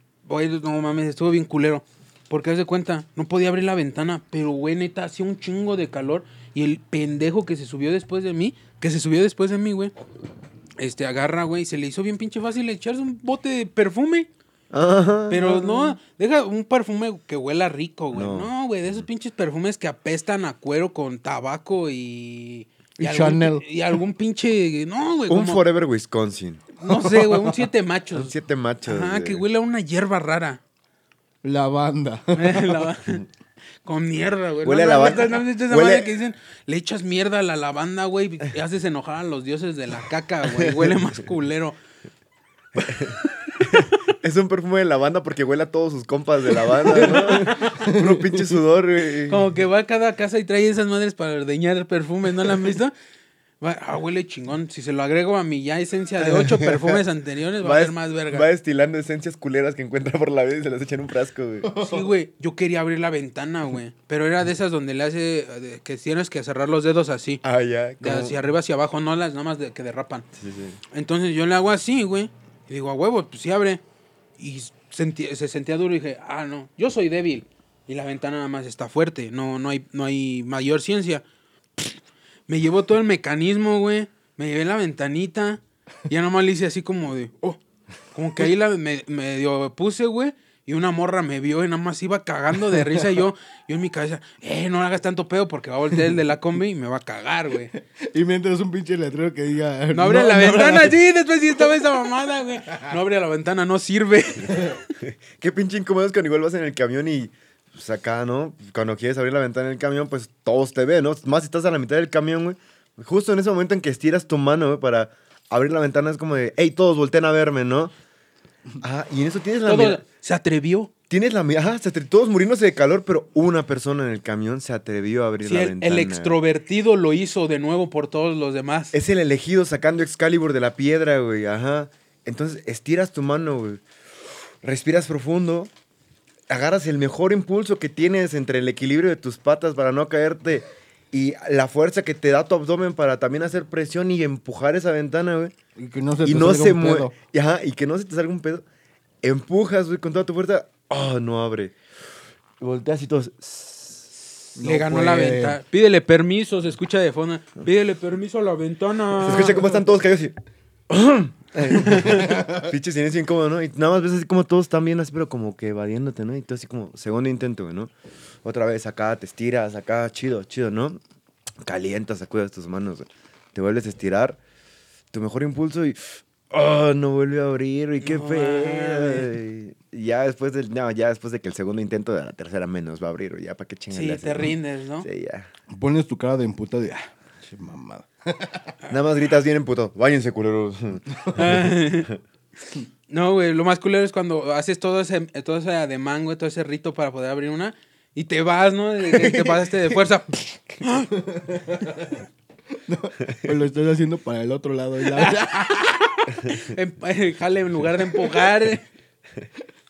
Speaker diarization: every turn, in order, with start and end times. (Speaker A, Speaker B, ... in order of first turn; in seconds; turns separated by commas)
Speaker A: 0.2-9.9, Speaker A: 10.8-14.3, Speaker B: 14.7-16.0, Speaker A: 15.3-25.6, Speaker B: 18.1-18.5, Speaker C: 23.0-23.7, Speaker B: 25.3-26.7, Speaker A: 26.8-28.3, Speaker C: 26.9-27.7, Speaker B: 28.1-29.4, Speaker A: 28.9-30.6, Speaker C: 31.4-32.9, Speaker A: 32.4-33.3, Speaker A: 33.8-41.8, Speaker B: 34.6-36.1, Speaker B: 40.5-41.1, Speaker B: 42.8-49.5, Speaker A: 42.8-44.0, Speaker A: 46.9-47.9, Speaker C: 47.8-48.5, Speaker A: 49.3-53.0, Speaker A: 53.6-58.5, Speaker B: 56.2-57.0, Speaker B: 57.6-61.7, Speaker C: 61.6-62.1, Speaker A: 61.8-67.4, Speaker B: 67.4-68.4, Speaker A: 68.0-70.3, Speaker B: 70.4-70.8, Speaker A: 70.9-73.8, Speaker A: 74.4-81.2, Speaker A: 81.8-87.6, Speaker A: 88.1-97.7, Speaker C: 97.7-101.0, Speaker A: 99.9-104.9, Speaker B: 105.0-117.9, Speaker B: 118.8-120.0, Speaker A: 119.7-120.9, Speaker B: 121.1-126.4, Speaker A: 125.4-128.9, Speaker B: 128.9-133.8, Speaker B: 134.6-135.7, Speaker B: 136.5-145.5, Speaker C: 145.8-147.1, Speaker B: 146.2-148.6, Speaker B: 149.2-151.8, Speaker B: 152.6-154.4, Speaker C: 154.6-155.6, Speaker A: 154.6-159.8, Speaker B: 159.2-160.3, Speaker B: 160.9-167.9, Speaker A: 161.8-162.4, Speaker C: 162.3-162.6, Speaker B: 168.4-171.0, Speaker B: 171.6-174.4, Speaker B: 175.1-185.5, Speaker A: 178.0-179.4, Speaker A: 183.9-185.1, Speaker C: 185.7-188.8, Speaker B: 188.9-192.2, Speaker C: 191.1-191.4, Speaker A: 191.3-192.1, Speaker A: 193.1-201.1, Speaker B: 199.2-199.8, Speaker C: 201.1-206.0, Speaker B: 203.2-203.5, Speaker A: 205.2-208.9